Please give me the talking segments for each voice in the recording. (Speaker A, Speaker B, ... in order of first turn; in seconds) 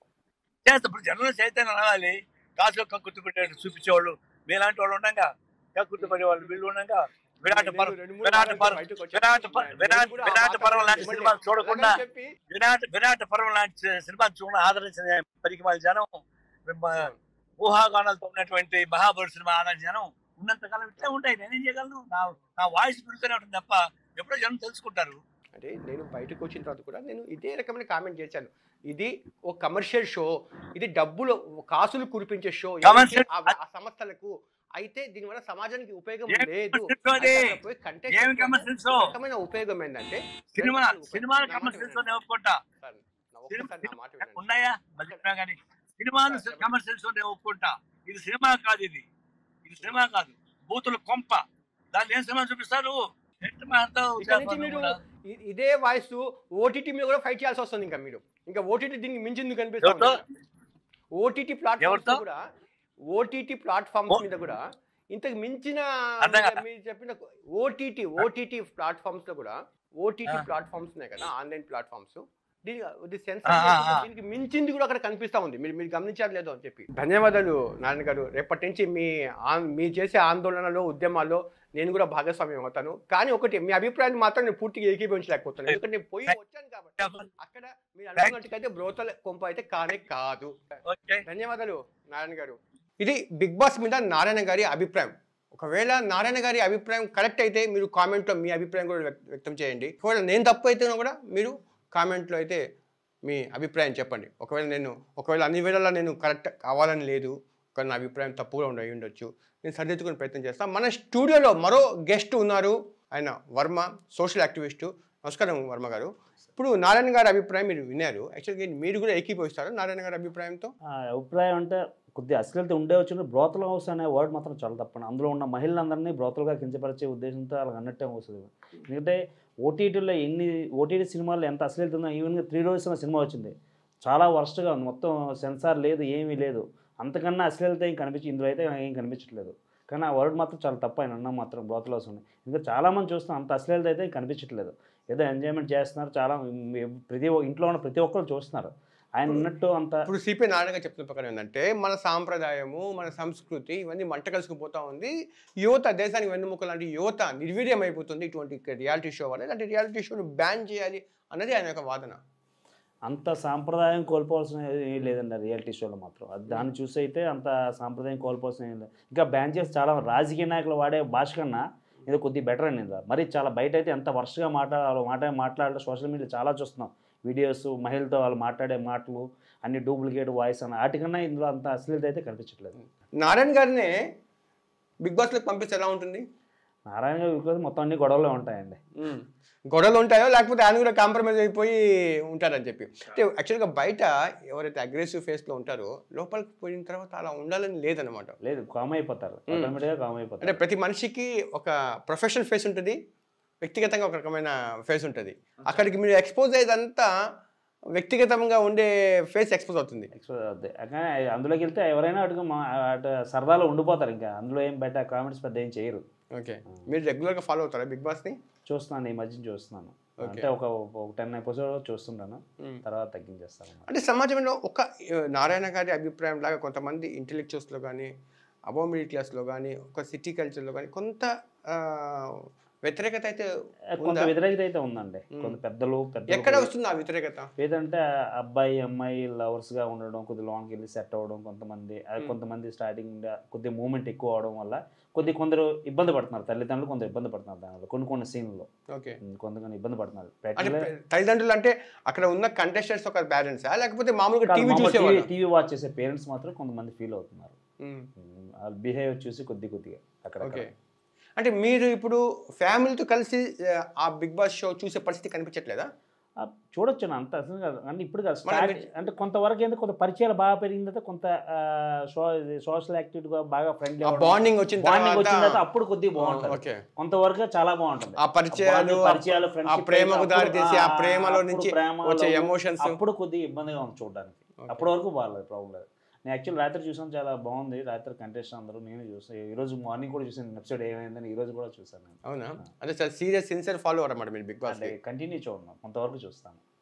Speaker A: 0.7-25.2, 32.8-33.5, 36.3-37.4, 38.1-39.0, 40.5-42.5, 43.5-49.0, 49.6-51.4, 51.9-54.9, 59.8-60.3, 61.8-62.2, 66.2-66.6, 73.5-74.0, 85.7-86.4, 87.0-87.3, 90.9-91.2
Speaker B: 6.0-6.6, 7.5-12.3, 25.6-42.2, 42.8-44.5, 46.3-46.7, 49.8-50.0, 54.2-60.2, 61.1-62.4, 63.1-90.5, 91.2-102.6, 103.2-120.7, 150.1-162.2, 183.2-183.9, 185.0-186.2, 189.0-191.8, 192.3-198.3, 200.4-203.0, 203.6-207.1, 207.9-210.1, 216.3-218.4, 220.2-220.5, 223.9-228.1, 228.7-234.3, 236.3-237.5, 250.6-255.3, 257.8-258.1, 260.4-260.7, 261.4-265.9, 268.5-268.9, 274.0-275.6, 276.2-276.8, 278.2-283.0, 284.6-284.9, 292.2-295.0
Speaker C: 121.1-150.1, 163.1-182.8, 186.9-188.8, 198.4-200.6, 210.1-216.0, 218.7-223.9, 233.9-236.7, 237.6-248.7, 249.2-250.9, 254.5-257.6, 258.2-260.7, 266.4-292.2, 294.7-296.6